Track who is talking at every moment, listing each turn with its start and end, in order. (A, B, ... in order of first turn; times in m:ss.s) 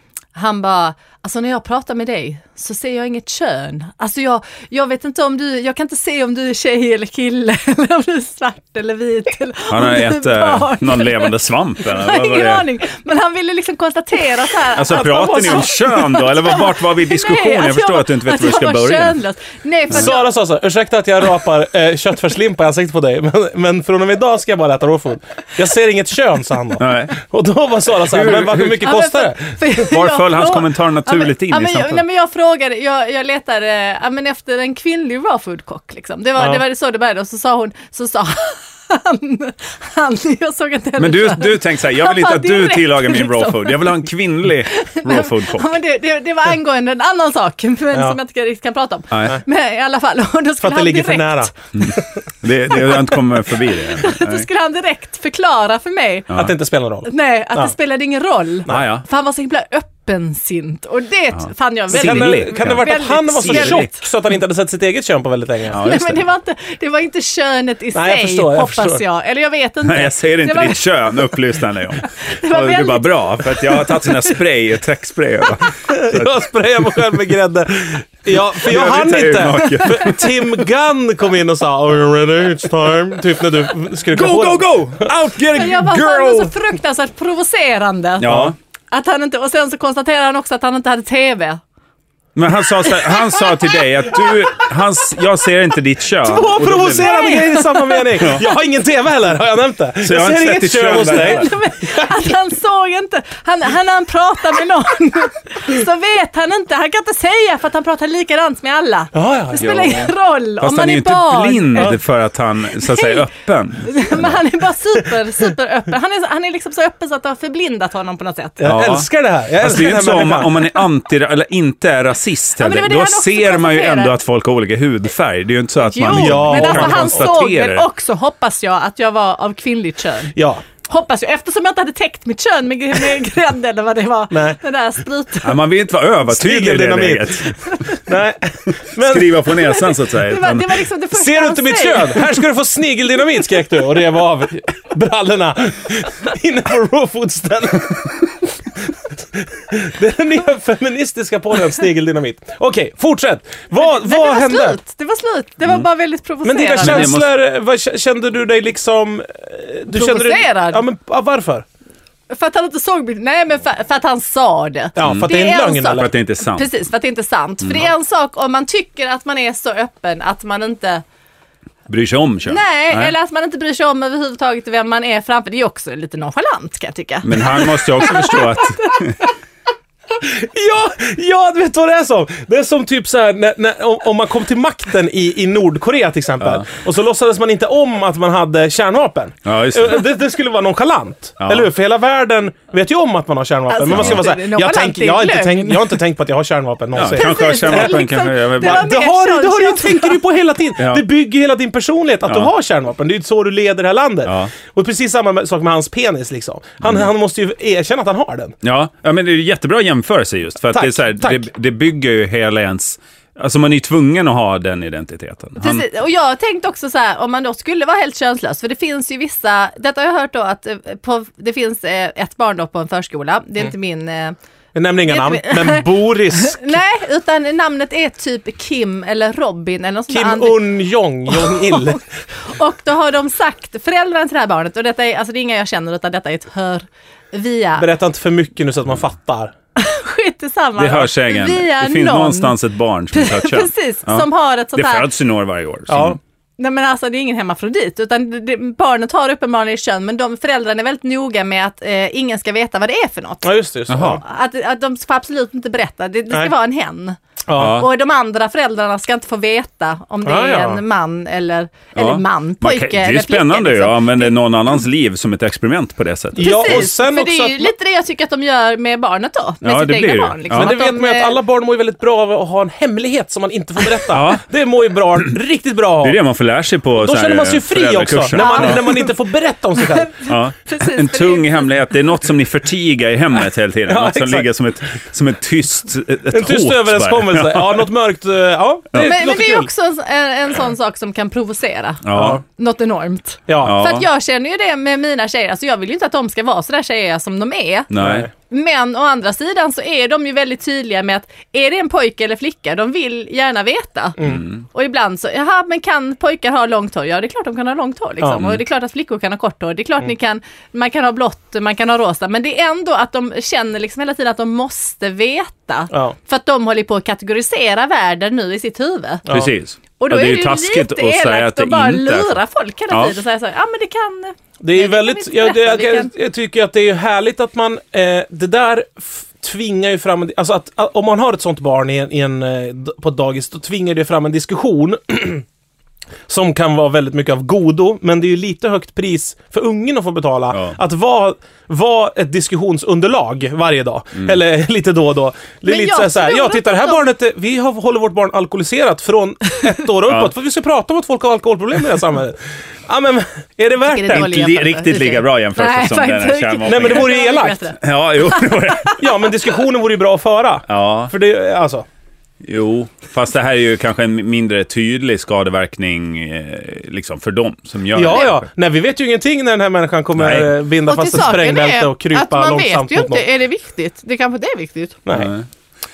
0:00.3-0:20.3 A
0:09.7-0:12.7 B
0:14.7-0:19.2 B
0:14.9-0:15.8 C
0:19.9-0:29.6 C
0:26.8-0:27.1 B
0:28.0-0:28.9 B
0:28.8-0:44.0 A
0:29.9-0:32.0 B
0:41.0-0:45.8 B
0:44.6-0:51.5 A
0:49.1-0:49.4 B
0:50.6-0:52.0 C
0:51.7-0:54.5 B
0:52.7-0:53.1 A
0:53.6-0:56.3 A
0:56.3-0:57.7 C
0:57.1-1:03.9 A
0:58.7-0:59.0 B
1:01.9-1:03.9 B
1:01.9-1:05.9 C
1:05.7-1:06.2 B
1:05.7-1:10.8 A
1:07.9-1:09.0 C
1:09.8-1:16.3 B
1:12.2-1:14.4 A
1:15.8-1:25.1 C
1:18.6-1:20.5 B
1:24.1-1:26.6 B
1:25.5-1:31.6 A
1:28.2-1:28.5 B
1:28.2-1:28.5 C
1:32.4-1:37.4 B
1:32.7-1:34.6 A
1:36.2-1:42.1 C
1:37.0-1:38.4 A
1:38.2-1:38.4 B
1:40.0-1:41.5 B
1:41.1-1:52.0 A
1:49.1-1:50.1 C
1:49.6-1:50.1 B
1:50.6-1:54.4 B
1:52.8-1:53.3 A
1:53.8-1:58.7 A
1:58.6-2:00.7 C
1:58.6-1:59.0 B
1:59.6-2:07.8 B
2:02.6-2:04.1 A
2:05.8-2:15.6 A
2:06.0-2:07.3 C
2:10.3-2:10.6 C
2:14.3-2:14.6 C
2:15.4-2:17.6 B
2:16.3-2:17.5 C
2:18.0-2:19.6 C
2:19.0-2:20.8 B
2:19.6-2:22.4 A
2:21.1-2:34.8 C
2:33.8-2:37.1 A
2:36.4-2:41.6 C
2:36.8-2:37.3 B
2:39.9-2:40.8 A
2:42.3-2:51.0 A
2:45.0-2:46.1 C
2:45.0-2:45.3 B
2:45.9-2:46.7 B
2:47.6-2:47.9 B
2:51.9-2:53.1 B
2:52.4-2:59.2 A
2:57.2-2:59.2 B
3:00.1-3:28.6 C
3:09.4-3:10.0 B
3:11.4-3:11.7 B
3:13.7-3:16.0 A
3:13.9-3:14.2 B
3:16.9-3:18.9 B
3:17.0-3:20.2 A
3:20.8-3:21.0 B
3:22.2-3:22.5 B
3:24.2-3:24.5 B
3:26.8-3:27.1 B
3:28.6-3:35.8 B
3:30.7-3:31.4 C
3:35.6-3:44.4 A
3:44.7-3:46.8 C
3:45.1-3:50.7 A
3:50.1-3:52.0 C
3:51.3-3:57.9 A
3:57.8-3:59.5 C
3:59.8-4:02.6 A
4:00.8-4:06.2 B
4:03.1-4:05.1 A
4:05.9-4:06.2 C
4:06.6-4:24.4 A
4:13.4-4:14.2 C
4:13.9-4:14.2 B
4:17.5-4:17.8 C
4:17.6-4:17.9 B
4:20.2-4:20.8 C
4:22.0-4:26.8 B
4:26.3-4:27.7 C
4:26.4-4:31.4 A
4:29.6-4:30.7 B
4:30.5-4:36.2 C
4:34.1-4:34.4 B
4:36.0-4:38.8 B
4:37.0-4:40.2 C
4:38.3-4:39.1 A
4:39.8-4:41.6 A
4:40.2-4:47.8 B
4:43.9-4:44.5 C
4:46.3-4:49.7 C
4:49.0-4:57.9 A
4:52.0-4:52.4 B
4:52.1-4:52.4 C
4:53.5-4:53.8 C
4:53.6-4:54.1 B
4:57.9-4:58.3 B
4:58.0-4:58.3 C
4:58.5-5:19.2 A
5:04.2-5:04.6 B
5:15.9-5:16.2 C
5:19.3-5:22.4 B
5:20.0-5:26.1 A
5:22.9-5:23.2 B
5:24.6-5:35.4 C
5:36.3-5:54.5 C
5:45.6-5:47.0 A
5:50.1-5:50.3 B
5:53.8-5:59.2 A
5:54.1-5:57.2 B
5:56.6-5:57.6 C
5:57.8-5:59.0 B
5:59.0-6:01.8 C
6:00.7-6:01.1 B
6:02.4-6:08.4 B
6:07.9-6:13.2 C
6:10.2-6:10.5 B
6:10.8-6:15.0 A
6:15.0-6:15.3 C
6:15.1-6:15.4 B